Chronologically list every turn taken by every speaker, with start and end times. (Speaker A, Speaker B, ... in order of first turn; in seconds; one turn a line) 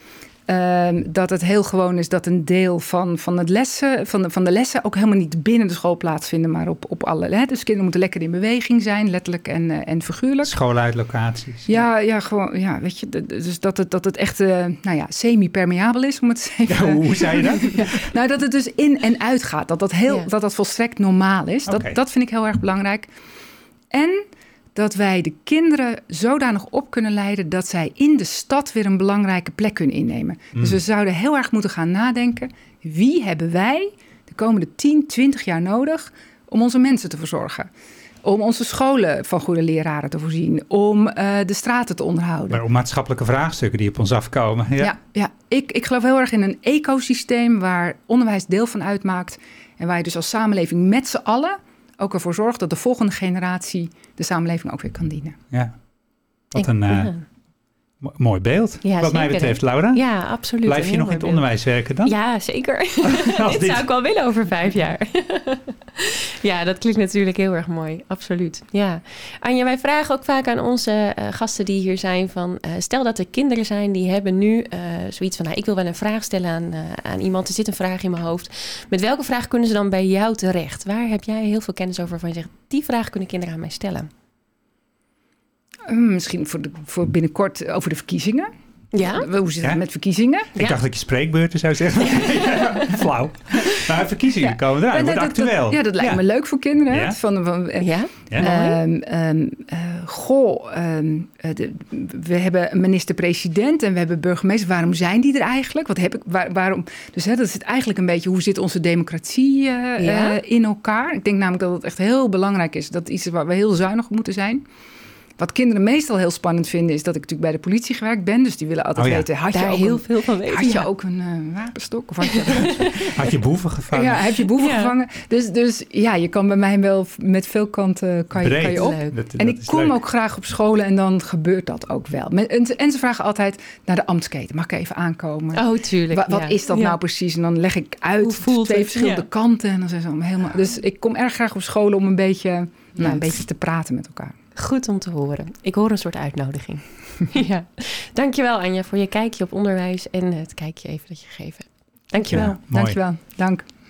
Speaker A: 0.5-10.6
Speaker B: 10.4-11.8
Speaker A: 11.7-23.1
Speaker B: 16.7-17.9
Speaker B: 21.7-22.0
Speaker A: 23.9-37.7
Speaker A: 38.2-42.6
Speaker B: 42.5-44.9
Speaker A: 44.8-55.4
Speaker B: 55.5-55.8
Speaker B: 56.5-57.1
Speaker C: 56.6-57.2
Speaker B: 58.0-60.0
Speaker C: 58.8-61.5
Speaker B: 60.6-62.1
Speaker C: 62.0-84.1
Speaker B: 63.0-63.9
Speaker A: 85.9-88.5
Speaker C: 88.9-89.3
Speaker A: 89.1-90.5
Speaker B: 90.5-96.2
Speaker C: 92.5-92.8
Speaker A: 94.4-114.7
Speaker B: 96.9-97.2
Speaker C: 97.8-98.8
Speaker C: 110.0-110.4
Speaker A: 115.4-123.2
Speaker B: 119.0-119.3
Speaker C: 119.5-120.9
Speaker C: 122.3-122.9
Speaker B: 122.9-124.3
Speaker A: 123.9-144.3
Speaker C: 124.5-124.9
Speaker B: 128.4-130.0
Speaker C: 128.7-129.2
Speaker C: 135.6-137.0
Speaker C: 138.2-139.2
Speaker C: 144.6-152.6
Speaker B: 152.3-153.0
Speaker A: 152.3-153.7